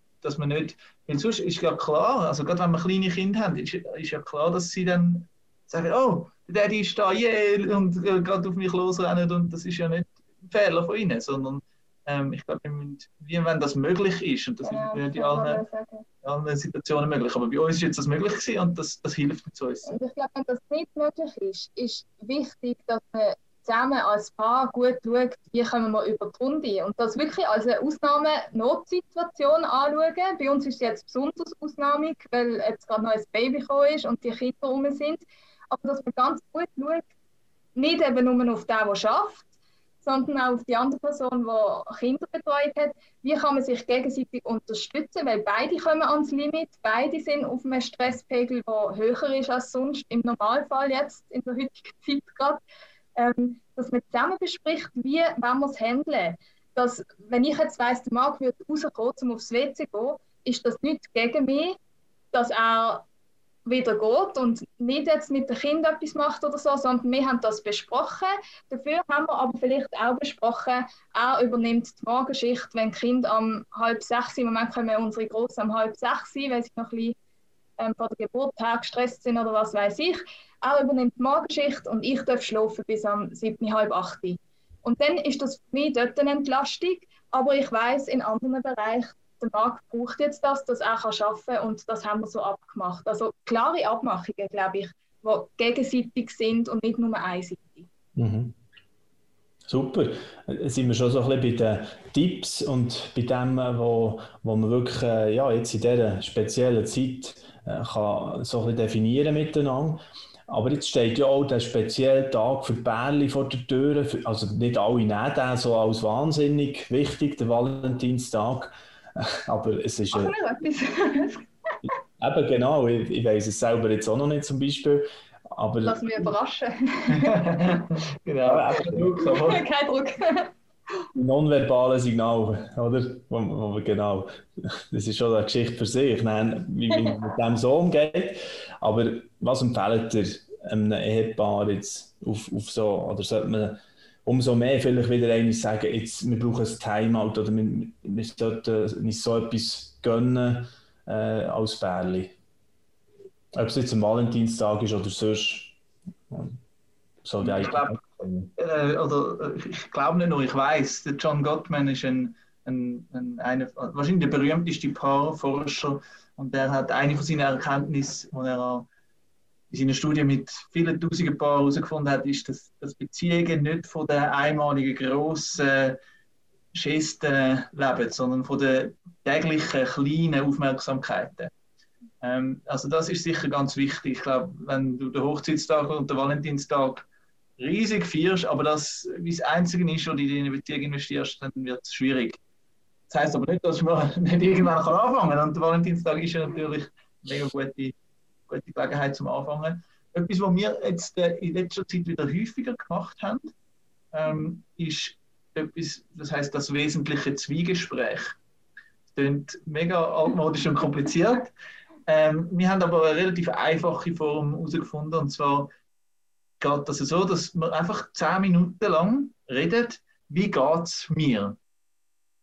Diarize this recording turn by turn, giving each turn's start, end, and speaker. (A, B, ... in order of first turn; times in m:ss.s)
0:00.2-0:15.6 A
0:14.6-0:16.0 B
0:16.2-0:19.9 A
0:19.8-0:37.1 B
0:37.7-0:39.4 B
0:40.0-0:52.6 B
0:53.2-1:01.8 B
1:02.3-1:03.0 B
1:03.6-1:17.2 B
1:17.8-1:37.9 B
1:38.2-1:38.6 C
1:39.7-2:00.3 C
2:00.1-2:01.5 B
2:01.8-2:06.0 C
2:05.8-2:07.6 B
2:07.1-2:09.6 A
2:08.4-2:09.1 C
2:09.2-2:10.5 B
2:11.1-2:32.3 C
2:16.9-2:17.2 B
2:33.5-2:35.8 C
2:36.3-2:36.6 C
2:37.2-2:38.5 C
2:37.4-2:38.0 A
2:38.6-2:48.9 A
2:49.7-2:56.0 A
2:56.7-3:01.5 A
3:02.2-3:07.0 A
3:07.6-3:12.4 A
3:13.1-3:17.9 A
3:18.5-3:23.5 A
3:24.1-3:28.4 A
3:29.1-3:31.5 A
3:32.1-3:35.7 A
3:36.6-3:41.6 A